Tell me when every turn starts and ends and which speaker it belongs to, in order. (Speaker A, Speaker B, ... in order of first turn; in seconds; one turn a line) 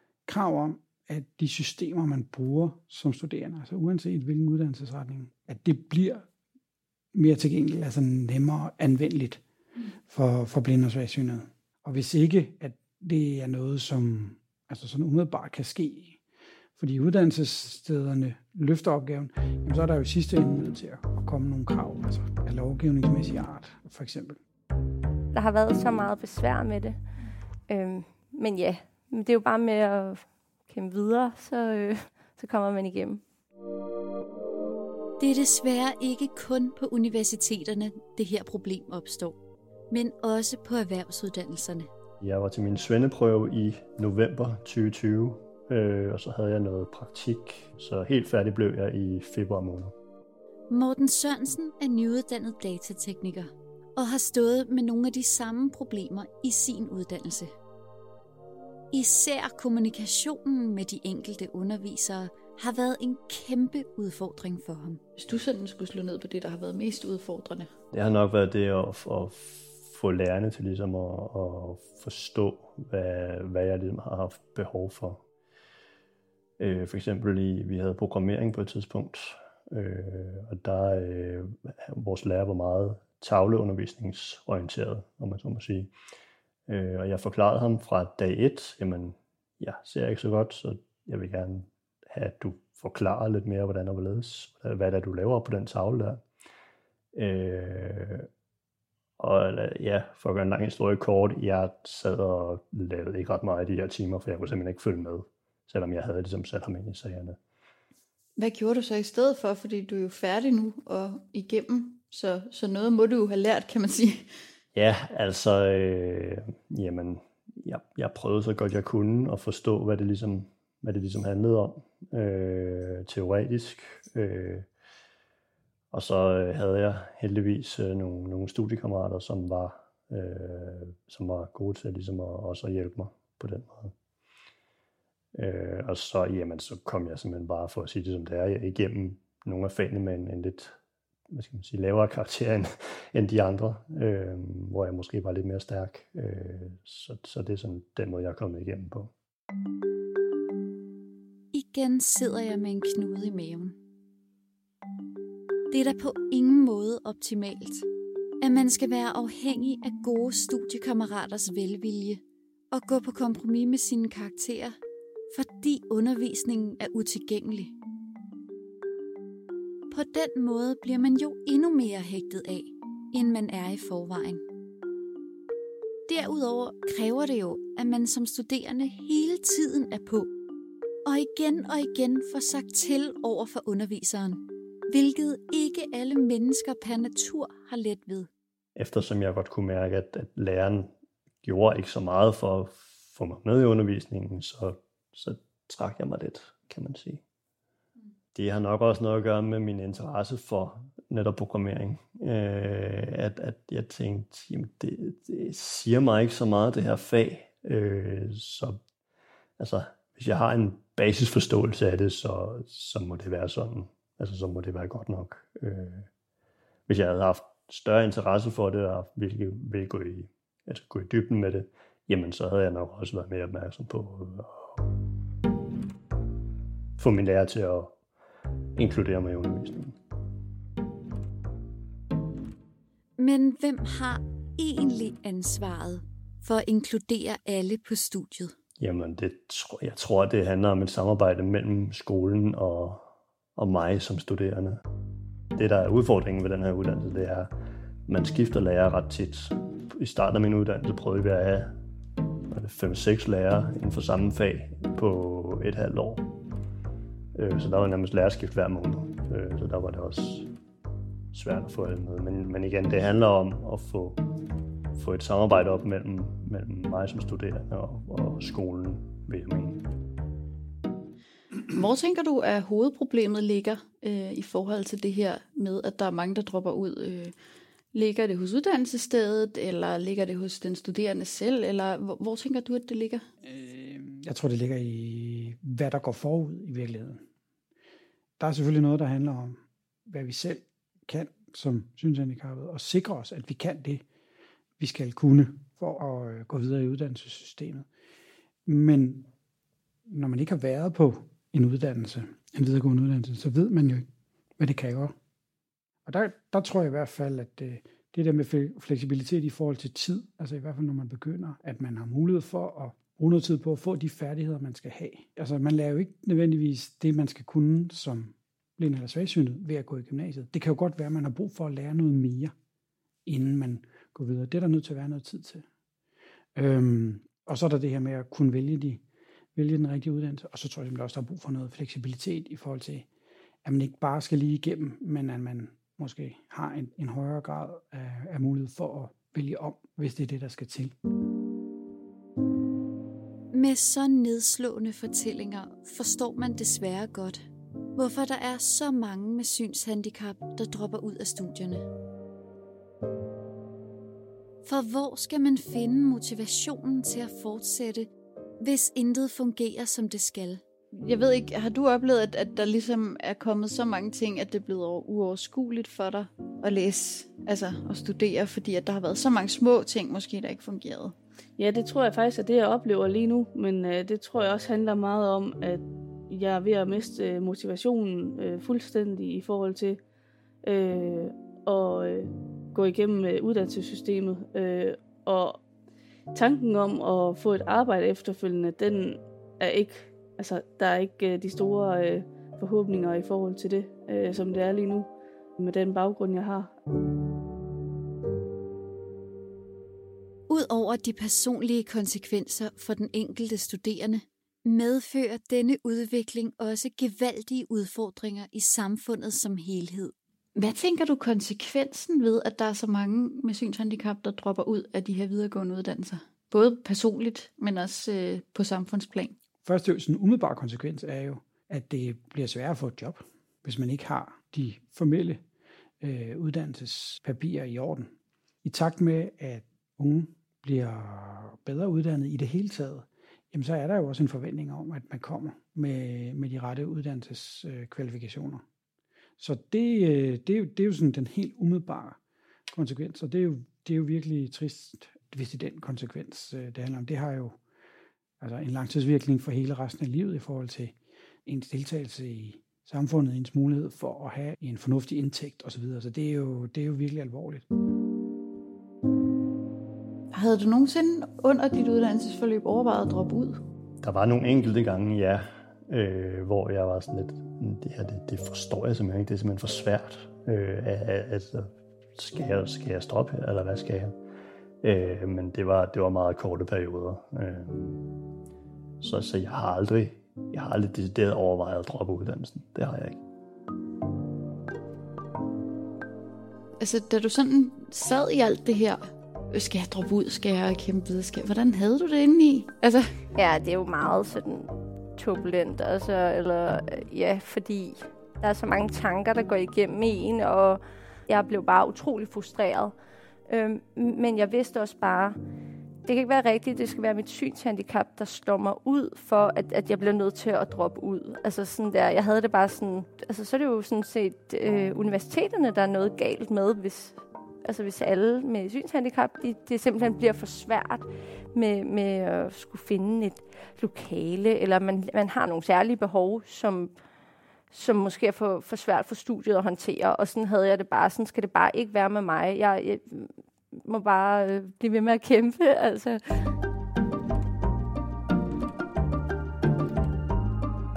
Speaker A: 0.2-6.3
Speaker A: 7.1-9.4
Speaker A: 10.1-16.2
Speaker A: 16.8-24.4
Speaker B: 25.3-27.0
Speaker B: 27.7-33.2
Speaker C: 35.2-39.4
Speaker C: 39.9-41.9
Speaker D: 42.2-49.9
Speaker C: 50.7-57.5
Speaker C: 58.9-65.0
Speaker E: 65.2-67.7
Speaker D: 67.9-75.2
Speaker D: 76.6-85.9
Speaker D: 86.7-96.2
Speaker D: 97.1-98.3
Speaker D: 99.2-107.4
Speaker E: 108.4-114.3
Speaker D: 114.7-124.7
Speaker D: 125.9-133.9
Speaker D: 135.3-140.7
Speaker D: 141.3-149.1
Speaker C: 151.5-153.8
Speaker C: 155.7-157.9
Speaker C: 158.4-164.8
Speaker C: 165.3-167.7
Speaker C: 169.9-174.4
Speaker C: 176.1-180.3
Speaker C: 181.1-188.3
Speaker D: 188.8-190.9
Speaker D: 191.4-197.2
Speaker D: 198.3-208.8
Speaker D: 209.6-216.1
Speaker D: 216.9-224.8
Speaker D: 227.0-227.9
Speaker D: 228.8-229.9
Speaker C: 233.2-238.5
Speaker D: 238.8-243.0
Speaker D: 243.6-244.8
Speaker D: 245.6-247.5
Speaker D: 248.1-251.7
Speaker D: 252.5-256.2
Speaker D: 257.3-260.5
Speaker D: 261.3-264.2
Speaker D: 264.9-269.8
Speaker E: 271.7-277.3
Speaker E: 277.9-283.2
Speaker A: 283.4-287.2
Speaker A: 288.4-294.0
Speaker A: 294.8-297.9
Speaker A: 298.6-299.3
Speaker A: 300.1-304.1
Speaker A: 304.6-305.1
Speaker A: 306.0-322.5
Speaker A: 323.2-325.6
Speaker A: 326.6-329.0
Speaker A: 329.5-333.1
Speaker A: 333.6-340.9
Speaker C: 343.5-351.9
Speaker C: 354.6-360.6
Speaker E: 360.9-371.1
Speaker F: 371.6-380.0
Speaker F: 380.6-385.6
Speaker F: 386.3-396.7
Speaker C: 400.5-410.1
Speaker E: 410.6-419.4
Speaker A: 419.6-425.4
Speaker A: 426.0-438.6
Speaker A: 439.4-447.6
Speaker A: 448.4-457.6
Speaker E: 460.3-463.6
Speaker D: 464.0-474.1
Speaker D: 474.8-478.0
Speaker D: 479.0-483.2
Speaker E: 486.8-493.1
Speaker B: 493.4-502.9
Speaker B: 503.5-505.4
Speaker B: 506.0-526.9
Speaker B: 527.7-536.5